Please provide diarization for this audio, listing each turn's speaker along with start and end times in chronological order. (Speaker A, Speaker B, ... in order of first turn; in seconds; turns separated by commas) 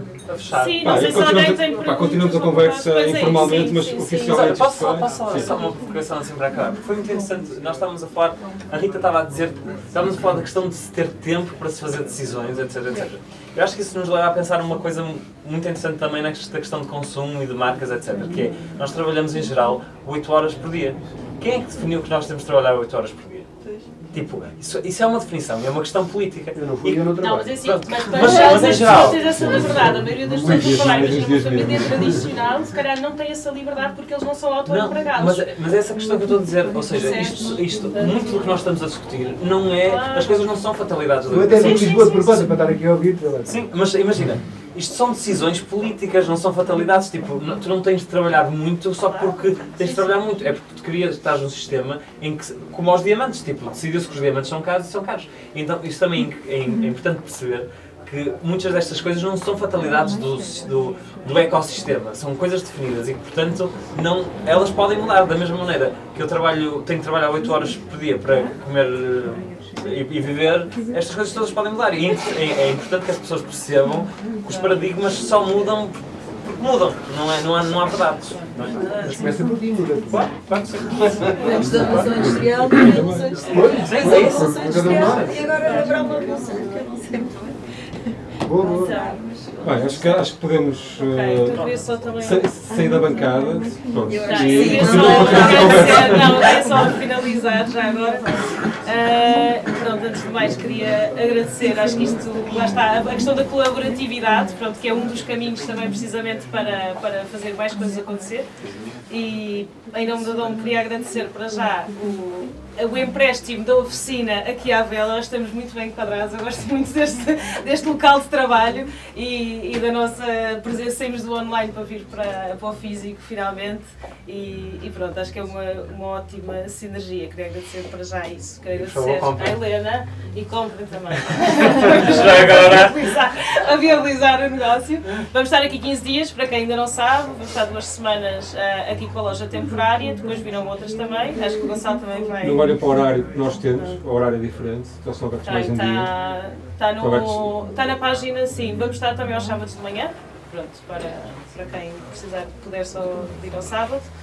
Speaker A: 0.3-1.0, Speaker B: 0.5-4.7, Speaker C: 0.8-5.5, Speaker A: 4.3-23.5, Speaker D: 23.6-23.9, Speaker A: 24.1-29.6, Speaker E: 26.6-27.6, Speaker B: 27.2-35.5, Speaker E: 28.1-31.2, Speaker C: 29.4-32.2, Speaker A: 34.7-42.4, Speaker B: 36.9-38.5, Speaker B: 39.8-40.5, Speaker E: 41.3-43.6, Speaker B: 41.6-42.5, Speaker A: 43.5-78.8, Speaker B: 49.1-50.1, Speaker E: 78.7-80.4, Speaker D: 78.8-79.4, Speaker A: 80.1-82.1, Speaker D: 81.4-87.7, Speaker E: 81.4-82.7, Speaker C: 82.7-83.3, Speaker E: 83.5-86.5, Speaker A: 83.8-85.3, Speaker B: 85.5-86.2, Speaker E: 88.4-89.0, Speaker D: 88.6-90.3, Speaker B: 88.6-89.2, Speaker C: 89.6-96.5, Speaker B: 91.0-92.5, Speaker A: 91.5-91.8, Speaker D: 94.1-96.9, Speaker B: 94.2-108.5, Speaker B: 109.1-142.7, Speaker A: 128.7-129.6, Speaker A: 131.4-133.0, Speaker C: 142.4-146.1, Speaker B: 145.4-154.1, Speaker C: 147.0-147.6